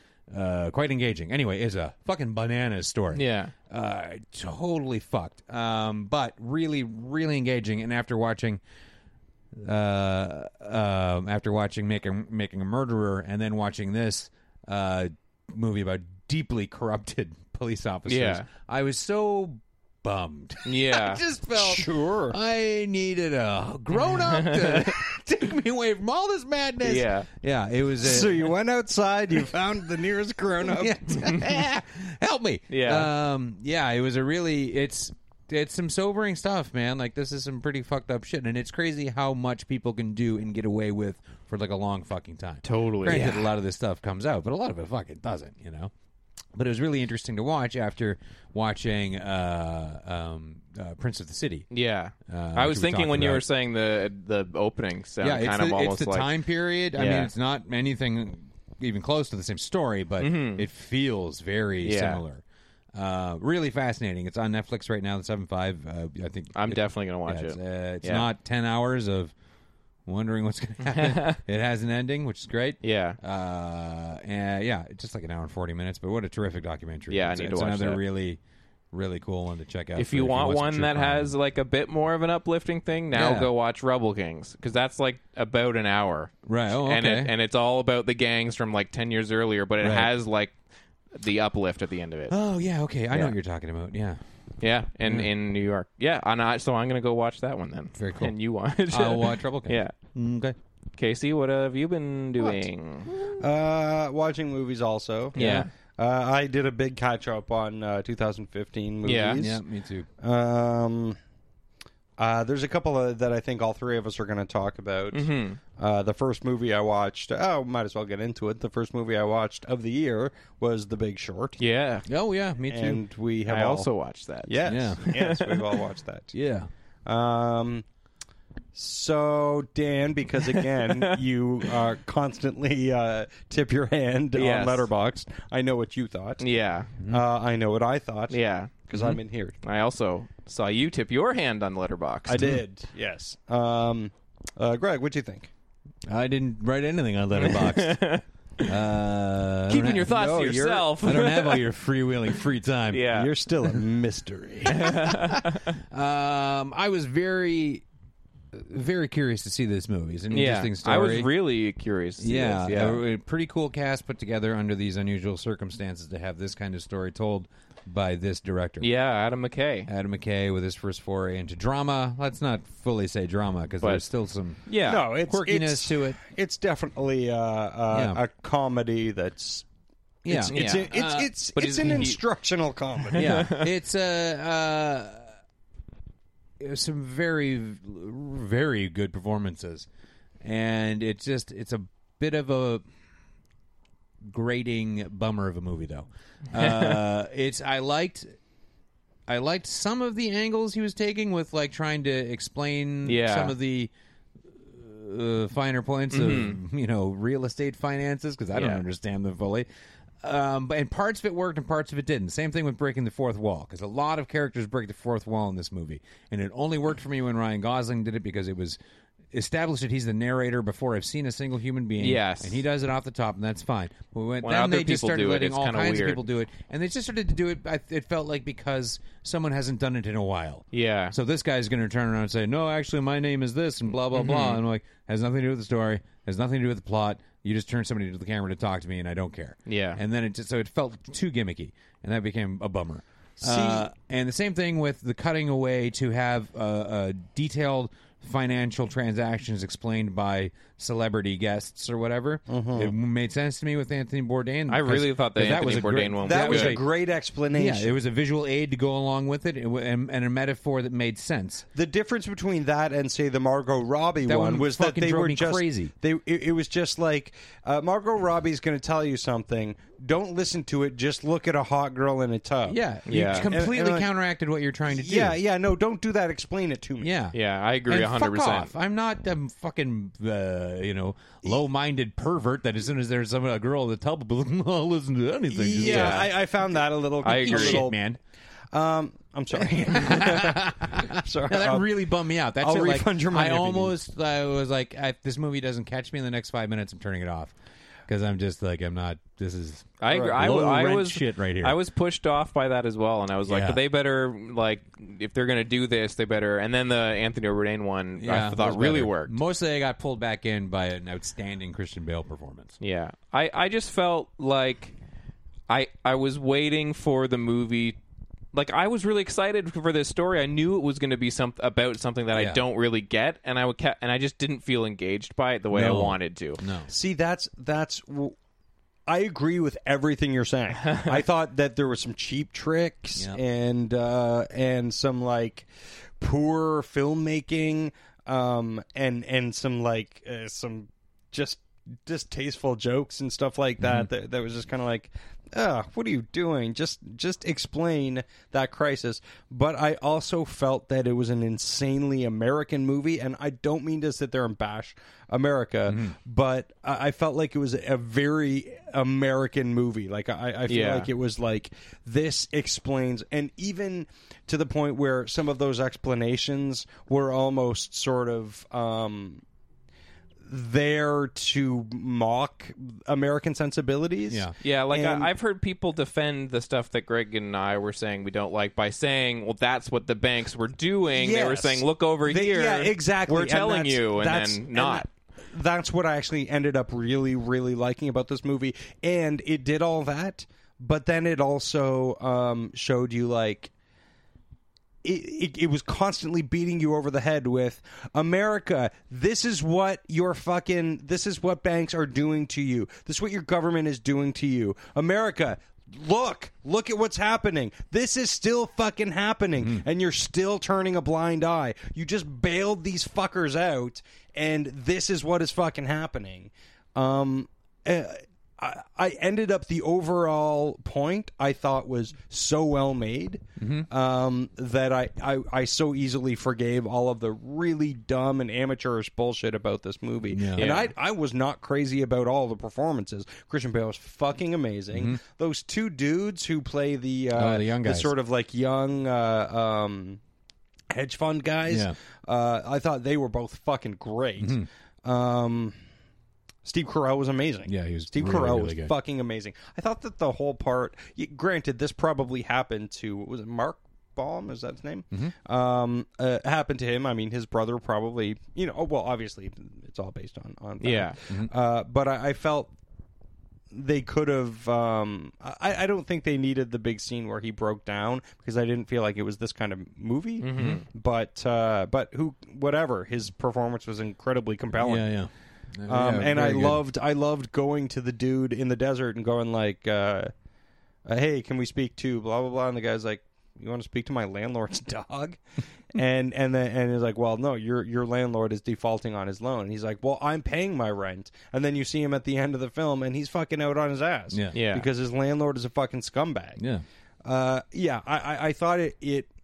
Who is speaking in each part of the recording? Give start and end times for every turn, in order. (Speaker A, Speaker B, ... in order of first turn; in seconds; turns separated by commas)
Speaker A: 0.3-8.6, Speaker B: 3.1-3.5, Speaker A: 9.5-28.5, Speaker B: 18.1-18.5, Speaker B: 20.6-21.2, Speaker C: 21.6-22.4, Speaker B: 24.3-24.9, Speaker B: 26.8-27.3, Speaker C: 28.0-31.1, Speaker A: 30.6-45.9, Speaker B: 32.7-33.1, Speaker B: 42.6-43.5, Speaker A: 46.5-51.7, Speaker B: 51.7-56.3, Speaker A: 52.2-53.5, Speaker A: 55.2-62.4, Speaker B: 56.9-57.3, Speaker B: 60.2-60.6, Speaker B: 61.8-62.2, Speaker A: 62.9-69.3, Speaker B: 66.5-68.3, Speaker A: 70.0-78.4, Speaker B: 70.8-71.4, Speaker B: 72.8-73.2, Speaker B: 77.1-78.0, Speaker A: 78.9-81.3, Speaker B: 79.9-90.5, Speaker A: 83.1-83.5, Speaker A: 86.4-87.3, Speaker A: 89.8-90.1, Speaker B: 91.1-92.3, Speaker A: 92.3-94.2, Speaker B: 94.6-99.9, Speaker A: 95.0-95.3, Speaker A: 97.9-98.3, Speaker A: 98.9-100.5, Speaker B: 101.0-103.1, Speaker C: 103.3-109.6, Speaker B: 105.3-105.7, Speaker A: 105.3-105.7, Speaker B: 109.0-109.4, Speaker A: 109.4-110.1, Speaker C: 110.2-111.2, Speaker C: 112.2-121.6, Speaker B: 115.1-115.6, Speaker B: 121.6-122.0, Speaker A: 122.1-123.0, Speaker C: 122.7-123.9, Speaker B: 123.5-125.8, Speaker C: 124.5-126.3, Speaker A: 124.6-125.0, Speaker A: 126.3-126.7, Speaker C: 127.0-127.8, Speaker C: 128.7-136.4, Speaker B: 134.3-134.9, Speaker B: 136.4-136.9, Speaker C: 137.1-139.5, Speaker B: 138.3-138.9, Speaker B: 139.6-142.5, Speaker C: 142.3-145.5, Speaker A: 146.1-148.0, Speaker B: 147.3-148.6, Speaker A: 148.6-153.1, Speaker B: 149.7-151.6, Speaker C: 150.1-150.8, Speaker B: 152.9-153.3, Speaker C: 153.1-155.0, Speaker B: 154.7-155.6, Speaker A: 155.9-157.8, Speaker A: 158.5-161.3, Speaker B: 160.3-163.0, Speaker A: 162.2-168.9, Speaker B: 168.8-169.9, Speaker A: 169.9-176.2, Speaker B: 174.7-175.0, Speaker C: 174.8-179.6, Speaker A: 177.9-178.2, Speaker A: 180.2-181.3, Speaker C: 180.3-183.5, Speaker B: 180.5-180.9, Speaker B: 181.6-182.2, Speaker B: 183.1-183.7, Speaker A: 183.1-185.3, Speaker A: 186.6-189.9, Speaker A: 190.4-192.8, Speaker A: 194.2-198.3, Speaker B: 196.6-197.0, Speaker A: 199.3-203.9, Speaker B: 203.0-203.6, Speaker A: 204.5-209.7, Speaker B: 206.1-206.6, Speaker B: 208.5-208.8, Speaker A: 210.2-218.8, Speaker A: 219.3-256.9, Speaker B: 222.0-222.6, Speaker B: 224.4-226.2, Speaker B: 230.7-231.1, Speaker B: 234.1-234.6, Speaker B: 239.7-240.0, Speaker C: 243.4-243.8, Speaker C: 252.5-252.9, Speaker B: 254.7-256.8, Speaker C: 256.2-257.9, Speaker A: 257.5-261.6, Speaker C: 261.8-274.1, Speaker A: 264.2-265.9, Speaker A: 272.6-275.4, Speaker B: 273.1-273.5, Speaker C: 274.9-277.1, Speaker A: 277.0-286.4, Speaker B: 277.3-278.7, Speaker C: 285.5-288.0, Speaker B: 285.8-286.3, Speaker B: 287.2-287.8, Speaker A: 287.3-288.2, Speaker C: 288.7-292.0, Speaker A: 289.6-297.5, Speaker C: 292.6-293.9, Speaker A: 298.1-301.8, Speaker B: 300.0-309.4, Speaker C: 300.1-300.4, Speaker A: 303.5-303.8, Speaker A: 308.2-312.8, Speaker B: 312.8-314.9, Speaker B: 315.7-318.0, Speaker B: 318.5-326.6, Speaker A: 322.3-322.6, Speaker A: 325.7-326.9, Speaker C: 326.9-328.3, Speaker C: 329.1-335.7, Speaker A: 333.1-333.4, Speaker C: 336.2-369.4, Speaker A: 343.8-344.1, Speaker A: 355.9-356.1, Speaker B: 360.7-361.1, Speaker C: 370.5-375.3, Speaker A: 374.3-374.5, Speaker B: 374.6-385.0, Speaker C: 381.1-393.7, Speaker C: 395.0-440.2, Speaker A: 409.6-409.8, Speaker A: 423.6-423.9, Speaker A: 430.3-430.7, Speaker B: 430.6-430.9, Speaker A: 434.9-435.2, Speaker A: 437.3-438.1, Speaker C: 440.9-445.8, Speaker A: 441.7-442.0, Speaker A: 444.4-444.7, Speaker C: 446.6-462.7, Speaker A: 447.7-448.9, Speaker B: 460.8-461.2, Speaker C: 463.7-475.1, Speaker B: 470.4-470.8, Speaker A: 474.8-476.8, Speaker C: 475.9-480.3, Speaker C: 481.1-485.4, Speaker C: 485.9-496.6, Speaker A: 494.3-494.6, Speaker B: 494.5-494.9, Speaker A: 496.6-496.8, Speaker C: 497.2-499.3